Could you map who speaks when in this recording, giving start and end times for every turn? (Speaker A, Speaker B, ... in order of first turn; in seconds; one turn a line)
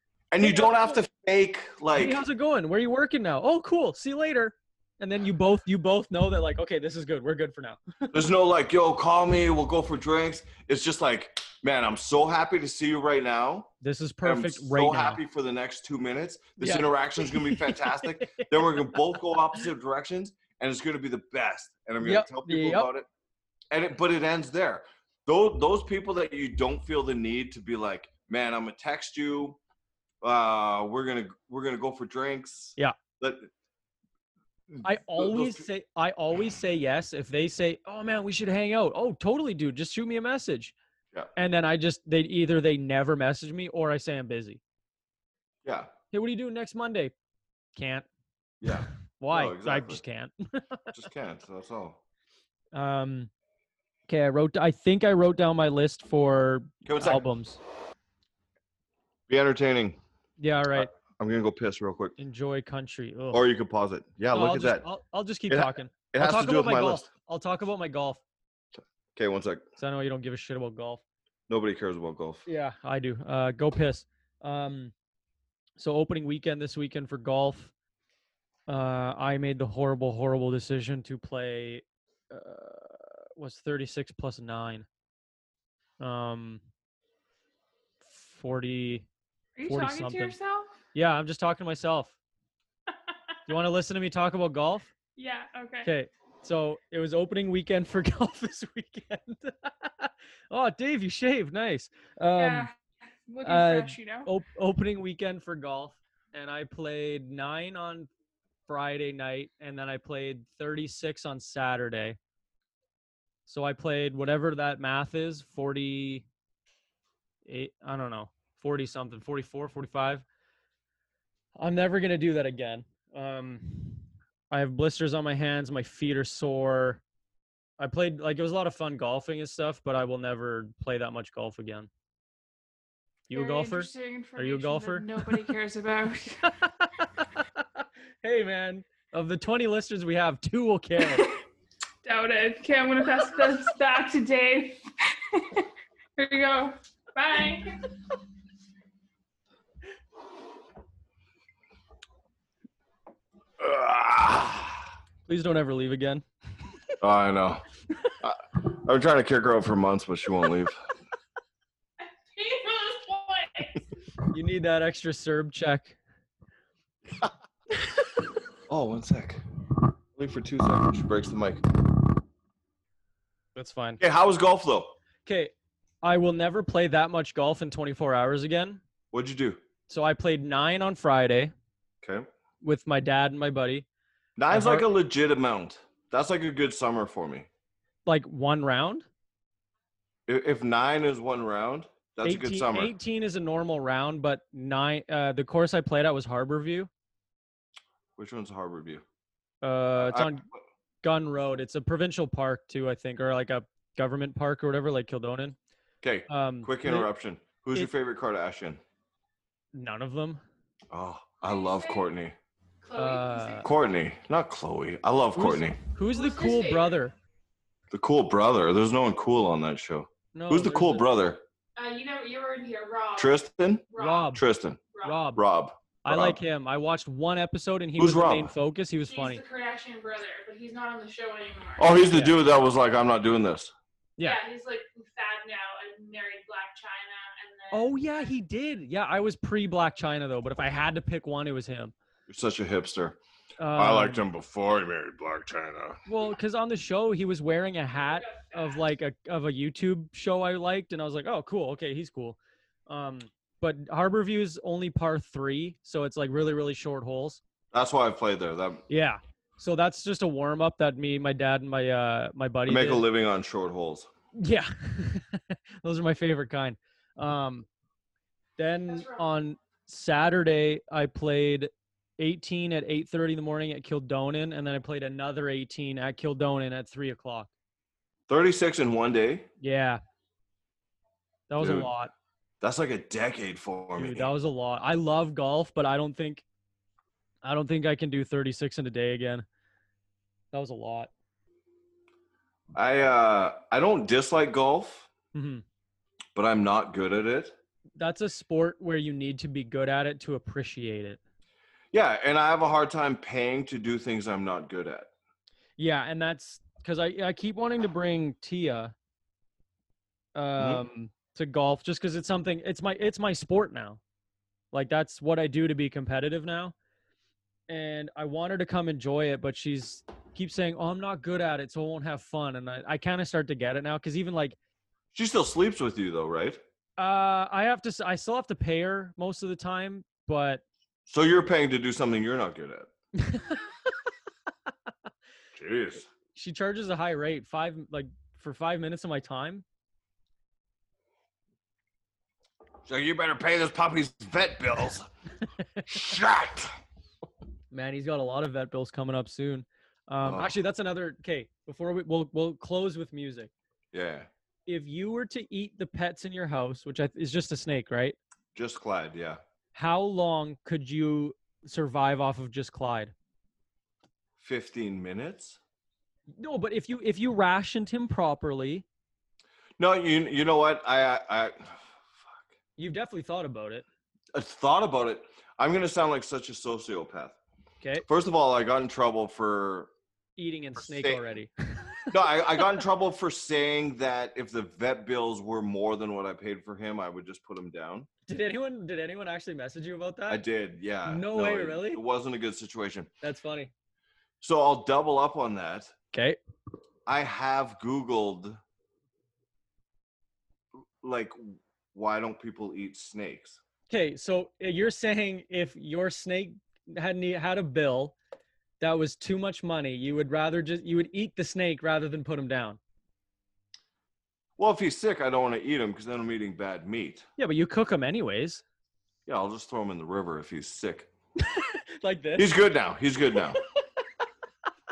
Speaker A: 0.3-2.2
Speaker B: 0.4-0.9
Speaker B: 1.9-8.2
Speaker A: 8.1-13.7
Speaker B: 13.8-15.2
Speaker A: 14.2-23.1
Speaker B: 16.6-19.2
Speaker B: 22.0-22.9
Speaker A: 23.7-29.6
Speaker A: 30.2-33.5
Speaker A: 34.7-35.6
Speaker B: 34.8-40.7
Speaker B: 41.4-44.6
Speaker A: 45.6-45.9
Speaker B: 46.1-47.1
Speaker B: 47.7-48.1
Speaker A: 48.6-50.0
Speaker B: 48.7-50.9
Speaker A: 50.9-52.0
Speaker B: 52.7-53.3
Speaker B: 54.1-57.6
Speaker A: 56.8-57.2
Speaker A: 59.3-60.0
Speaker B: 60.4-60.9
Speaker A: 60.7-62.1
Speaker B: 62.2-63.4
Speaker A: 63.3-64.8
Speaker B: 64.3-68.2
Speaker A: 65.5-67.1
Speaker A: 69.1-69.6
Speaker B: 69.8-71.0
Speaker A: 71.5-72.5
Speaker B: 72.5-74.9
Speaker B: 75.8-77.7
Speaker B: 78.7-84.9
Speaker B: 86.0-86.6
Speaker B: 88.0-89.1
Speaker C: 89.5-90.7
Speaker B: 89.6-90.3
Speaker B: 90.9-92.2
Speaker B: 93.5-94.9
Speaker C: 95.2-95.9
Speaker B: 95.8-102.7
Speaker C: 102.3-102.7
Speaker C: 103.3-104.3
Speaker B: 103.4-108.1
Speaker B: 108.7-112.2
Speaker B: 113.5-116.2
Speaker B: 117.4-120.2
Speaker B: 121.5-127.0
Speaker B: 127.8-131.9
Speaker B: 133.3-135.4
Speaker C: 133.3-136.6
Speaker B: 136.5-141.3
Speaker C: 142.0-147.9
Speaker A: 153.6-154.9
Speaker B: 155.2-156.2
Speaker A: 157.0-157.6
Speaker A: 158.2-160.8
Speaker C: 162.3-163.8
Speaker B: 164.3-166.0
Speaker A: 168.7-169.4
Speaker A: 170.1-171.8
Speaker B: 173.5-174.0
Speaker A: 174.0-174.9
Speaker B: 175.2-178.8
Speaker A: 179.1-179.6
Speaker B: 179.9-181.5
Speaker A: 182.0-182.3
Speaker B: 182.6-183.8
Speaker A: 184.4-187.5
Speaker B: 184.5-184.8
Speaker B: 188.0-189.1
Speaker A: 190.3-192.9
Speaker B: 192.2-196.9
Speaker A: 198.2-199.0
Speaker B: 199.6-200.4
Speaker A: 199.9-200.6
Speaker B: 201.0-205.6
Speaker A: 206.0-208.8
Speaker B: 206.3-207.1
Speaker B: 209.7-210.4
Speaker A: 210.9-212.3
Speaker C: 211.4-212.1
Speaker C: 212.8-213.7
Speaker B: 212.9-213.7
Speaker A: 213.6-215.8
Speaker B: 215.3-217.1
Speaker C: 216.1-216.9
Speaker A: 217.9-221.4
Speaker B: 220.3-221.0
Speaker C: 221.8-225.2
Speaker A: 223.2-224.8
Speaker B: 224.0-224.4
Speaker B: 225.0-225.4
Speaker A: 225.3-226.4
Speaker B: 226.0-229.4
Speaker A: 228.0-228.5
Speaker C: 229.1-232.0
Speaker A: 231.8-233.7
Speaker C: 234.2-238.3
Speaker B: 237.7-241.9
Speaker A: 242.3-243.2
Speaker B: 243.6-244.2
Speaker A: 243.7-246.0
Speaker B: 246.1-257.4
Speaker C: 248.0-248.8
Speaker A: 257.7-258.8
Speaker B: 258.9-263.1
Speaker A: 262.7-264.1
Speaker B: 264.3-267.7
Speaker B: 268.6-277.5
Speaker C: 268.9-269.2
Speaker A: 278.3-279.4
Speaker B: 279.6-280.0
Speaker B: 281.5-282.1
Speaker A: 281.6-281.9
Speaker A: 282.6-284.3
Speaker B: 284.0-286.4
Speaker B: 287.4-289.4
Speaker B: 290.5-291.1
Speaker A: 292.7-295.1
Speaker B: 295.3-295.6
Speaker A: 296.3-297.5
Speaker B: 298.0-301.2
Speaker A: 301.9-305.1
Speaker B: 305.8-308.9
Speaker B: 310.3-314.0
Speaker A: 310.6-310.8
Speaker B: 314.7-316.7
Speaker B: 317.7-324.6
Speaker A: 325.1-326.6
Speaker B: 327.0-330.6
Speaker A: 331.1-332.9
Speaker B: 333.2-333.7
Speaker A: 335.5-336.1
Speaker B: 336.3-339.6
Speaker A: 342.9-345.1
Speaker A: 345.8-346.7
Speaker B: 347.7-353.5
Speaker A: 350.2-350.5
Speaker A: 353.9-354.3
Speaker B: 354.6-358.2
Speaker A: 358.5-359.4
Speaker B: 359.7-363.1
Speaker A: 364.4-365.6
Speaker B: 366.4-368.8
Speaker A: 369.8-372.4
Speaker B: 372.8-373.8
Speaker A: 374.3-377.4
Speaker B: 377.8-378.1
Speaker A: 378.1-379.9
Speaker B: 380.4-382.1
Speaker A: 380.8-381.2
Speaker A: 382.1-388.1
Speaker B: 388.3-390.4
Speaker A: 390.3-393.1
Speaker B: 391.0-392.0
Speaker B: 393.2-393.7
Speaker A: 394.4-395.9
Speaker B: 396.1-396.4
Speaker A: 397.1-398.6
Speaker A: 401.0-403.6
Speaker B: 403.9-408.1
Speaker B: 408.8-412.8
Speaker A: 414.6-417.3
Speaker B: 417.4-418.6
Speaker A: 419.2-421.1
Speaker B: 421.4-422.5
Speaker A: 422.4-423.6